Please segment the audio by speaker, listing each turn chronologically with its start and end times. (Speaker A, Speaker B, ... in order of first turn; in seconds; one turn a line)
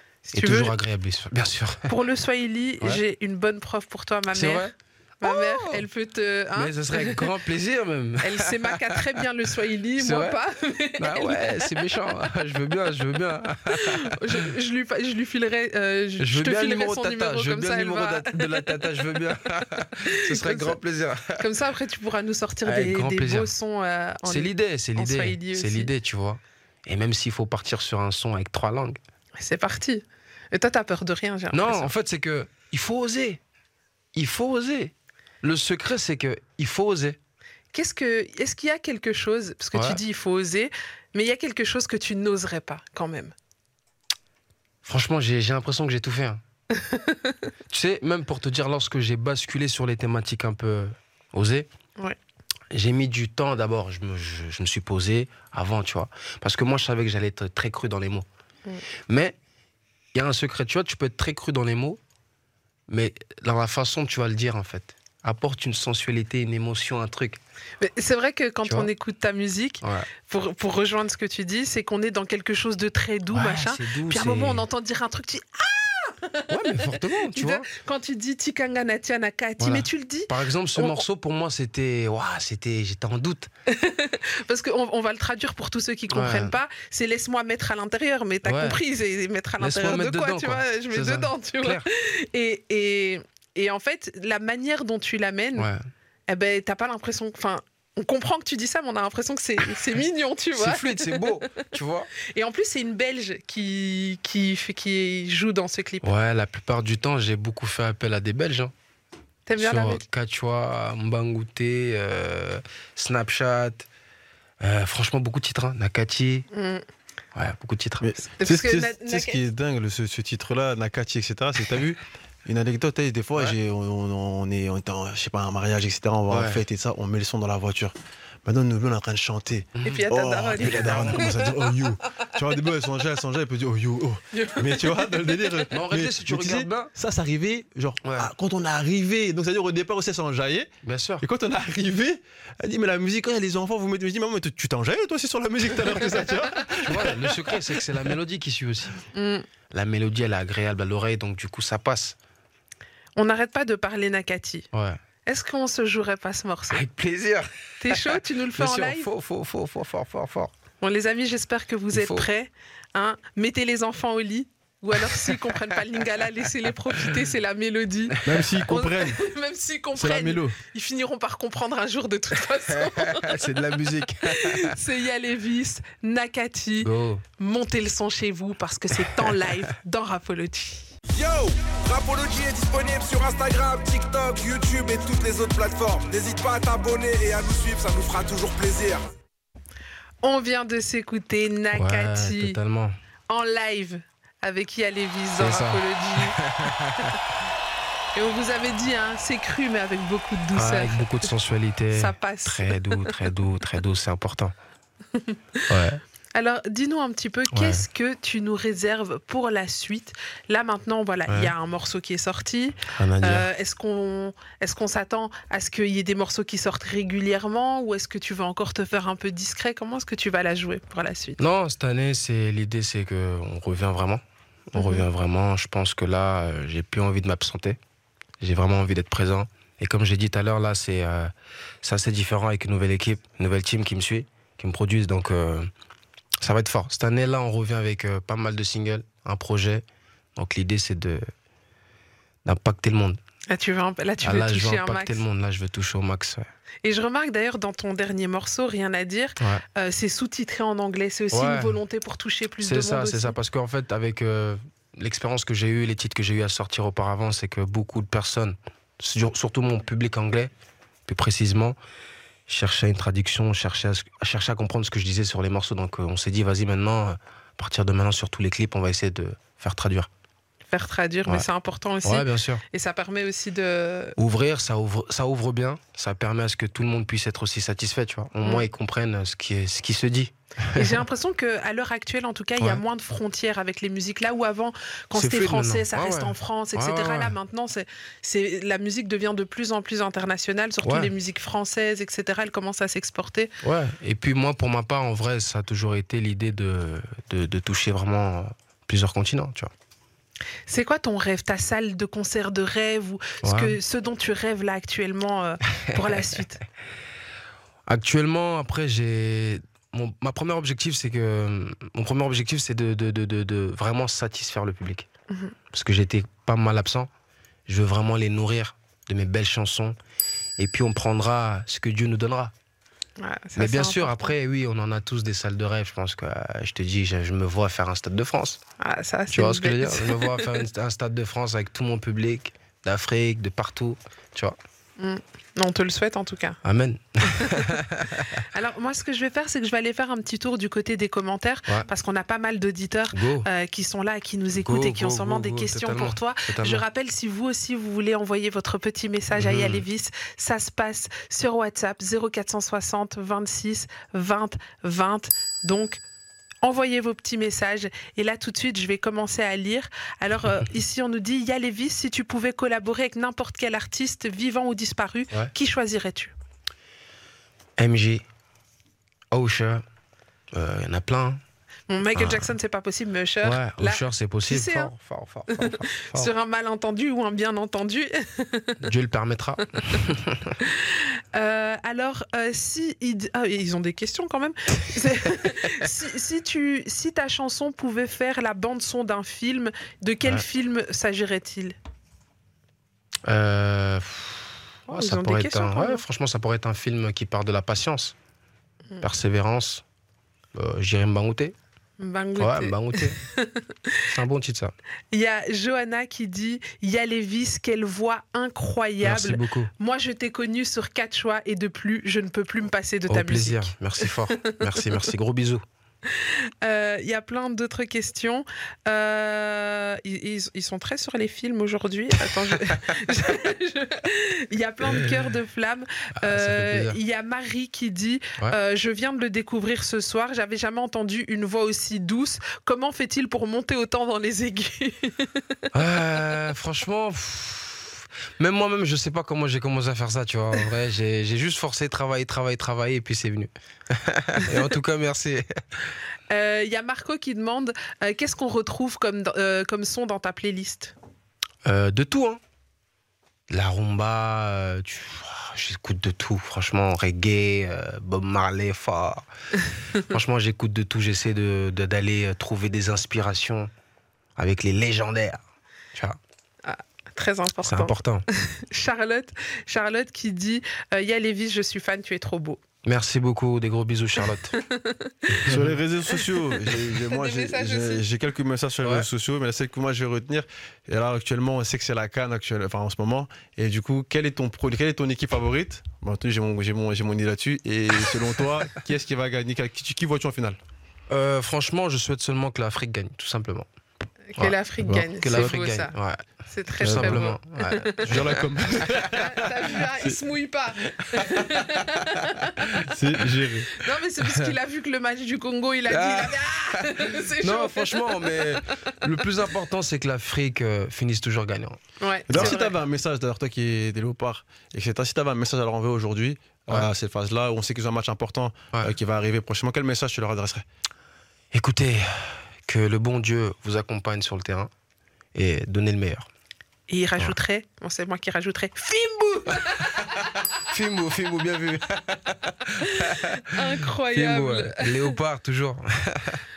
Speaker A: 0.2-0.8
Speaker B: 0.3-1.9
Speaker A: 1.9-4.7
Speaker B: 4.3-5.9
Speaker A: 5.2-7.3
Speaker B: 6.5-9.2
Speaker A: 8.2-11.8
Speaker B: 10.0-10.4
Speaker B: 11.0-14.4
Speaker A: 13.7-18.7
Speaker B: 16.2-21.4
Speaker A: 20.0-20.8
Speaker A: 21.4-25.9
Speaker B: 22.6-23.5
Speaker B: 24.2-29.0
Speaker A: 29.4-31.9
Speaker B: 31.5-33.4
Speaker B: 34.1-37.2
Speaker A: 37.7-43.3
Speaker B: 39.7-40.0
Speaker B: 44.8-46.4
Speaker A: 46.8-47.4
Speaker B: 47.7-51.7
Speaker B: 52.7-58.2
Speaker B: 59.1-59.4
Speaker B: 60.1-62.0
Speaker B: 62.9-67.4
Speaker A: 67.8-81.0
Speaker B: 68.6-68.9
Speaker B: 69.8-70.1
Speaker B: 73.3-74.7
Speaker B: 76.5-77.7
Speaker B: 79.6-83.5
Speaker A: 83.7-95.7
Speaker B: 86.1-86.5
Speaker B: 88.4-88.8
Speaker B: 89.6-91.9
Speaker B: 95.5-95.8
Speaker A: 96.3-101.6
Speaker B: 100.5-102.1
Speaker A: 102.3-106.1
Speaker B: 106.0-108.7
Speaker A: 109.5-110.0
Speaker B: 109.6-113.9
Speaker B: 114.6-116.5
Speaker A: 116.5-116.8
Speaker B: 117.3-118.1
Speaker C: 118.0-127.9
Speaker A: 118.3-119.4
Speaker B: 126.3-126.6
Speaker C: 128.4-147.4
Speaker B: 129.8-130.0
Speaker A: 129.8-131.5
Speaker B: 130.6-131.4
Speaker A: 134.3-135.1
Speaker B: 135.7-136.9
Speaker B: 138.0-138.3
Speaker B: 140.8-141.2
Speaker B: 146.8-149.0
Speaker A: 149.1-149.4
Speaker B: 149.7-152.2
Speaker A: 153.2-154.7
Speaker B: 154.7-155.0
Speaker A: 155.2-156.8
Speaker B: 156.7-160.5
Speaker A: 157.8-159.1
Speaker A: 160.8-173.4
Speaker B: 161.9-162.3
Speaker B: 165.1-165.4
Speaker C: 168.2-169.2
Speaker C: 169.9-170.6
Speaker B: 172.7-174.8
Speaker A: 174.2-180.9
Speaker B: 176.8-177.2
Speaker B: 179.2-179.5
Speaker D: 181.1-189.1
Speaker A: 190.2-192.6
Speaker B: 191.7-192.9
Speaker A: 193.3-196.4
Speaker B: 195.4-197.2
Speaker A: 198.1-201.3
Speaker B: 200.5-204.5
Speaker A: 201.9-203.2
Speaker A: 205.2-205.6
Speaker B: 205.7-206.0
Speaker A: 206.3-221.4
Speaker B: 207.5-207.9
Speaker B: 211.3-211.5
Speaker B: 212.9-213.5
Speaker B: 221.4-227.8
Speaker A: 224.8-225.0
Speaker B: 228.4-235.7
Speaker B: 236.4-239.8
Speaker B: 240.4-241.3
Speaker B: 242.4-243.2
Speaker A: 243.5-245.2
Speaker B: 244.2-246.5
Speaker A: 246.8-253.4
Speaker B: 251.3-251.8
Speaker B: 252.6-260.5
Speaker B: 261.1-261.8
Speaker B: 262.5-270.1
Speaker A: 270.7-274.2
Speaker B: 272.0-272.6
Speaker B: 274.2-281.0
Speaker A: 280.7-293.5
Speaker B: 285.1-287.4
Speaker B: 290.8-291.1
Speaker B: 293.6-299.7
Speaker A: 300.7-306.6
Speaker B: 303.4-303.8
Speaker B: 307.9-315.1
Speaker A: 315.3-315.6
Speaker B: 315.7-317.1
Speaker B: 317.7-319.9
Speaker B: 320.6-322.5
Speaker A: 323.2-324.3
Speaker B: 323.6-328.6
Speaker A: 328.8-330.6
Speaker B: 329.3-334.6
Speaker A: 335.0-336.6
Speaker B: 336.6-338.4
Speaker A: 337.2-337.7
Speaker A: 338.5-356.0
Speaker B: 343.1-343.5
Speaker B: 344.6-346.9
Speaker B: 349.4-349.8
Speaker A: 356.6-366.3
Speaker B: 367.8-368.2
Speaker B: 369.3-369.8
Speaker B: 370.5-371.4
Speaker A: 371.9-374.9
Speaker B: 372.1-372.5
Speaker B: 373.4-376.3
Speaker A: 375.5-378.8
Speaker B: 378.8-380.6
Speaker A: 380.6-391.8
Speaker B: 393.2-398.1
Speaker A: 394.9-396.0
Speaker B: 399.0-399.8
Speaker B: 400.5-401.6
Speaker A: 402.0-404.0
Speaker B: 402.4-403.2
Speaker B: 404.1-404.7
Speaker A: 405.1-414.9
Speaker B: 409.0-409.7
Speaker B: 413.1-415.6
Speaker A: 416.1-435.6
Speaker B: 424.9-425.1
Speaker B: 426.2-427.0
Speaker B: 435.7-445.9
Speaker A: 446.3-450.9
Speaker B: 451.6-452.4
Speaker B: 453.5-459.3
Speaker B: 460.0-463.7
Speaker B: 464.4-465.4
Speaker A: 466.6-472.6
Speaker B: 467.6-468.2
Speaker B: 472.8-474.6
Speaker A: 474.5-475.4
Speaker B: 475.4-475.7
Speaker C: 475.4-490.6
Speaker A: 477.1-478.0
Speaker B: 478.8-479.1
Speaker B: 491.1-493.7
Speaker A: 494.3-495.9
Speaker B: 494.4-496.2
Speaker A: 496.4-498.1
Speaker B: 496.8-498.8
Speaker C: 496.8-497.3
Speaker C: 498.0-500.2
Speaker A: 499.1-502.9
Speaker B: 501.2-502.3
Speaker C: 502.8-503.8
Speaker A: 503.7-508.9
Speaker B: 504.2-504.5
Speaker B: 505.9-512.6
Speaker A: 512.0-512.7
Speaker C: 512.3-520.6
Speaker B: 521.5-524.7
Speaker B: 525.3-526.3
Speaker A: 526.9-530.3
Speaker B: 530.6-536.4
Speaker A: 532.8-535.1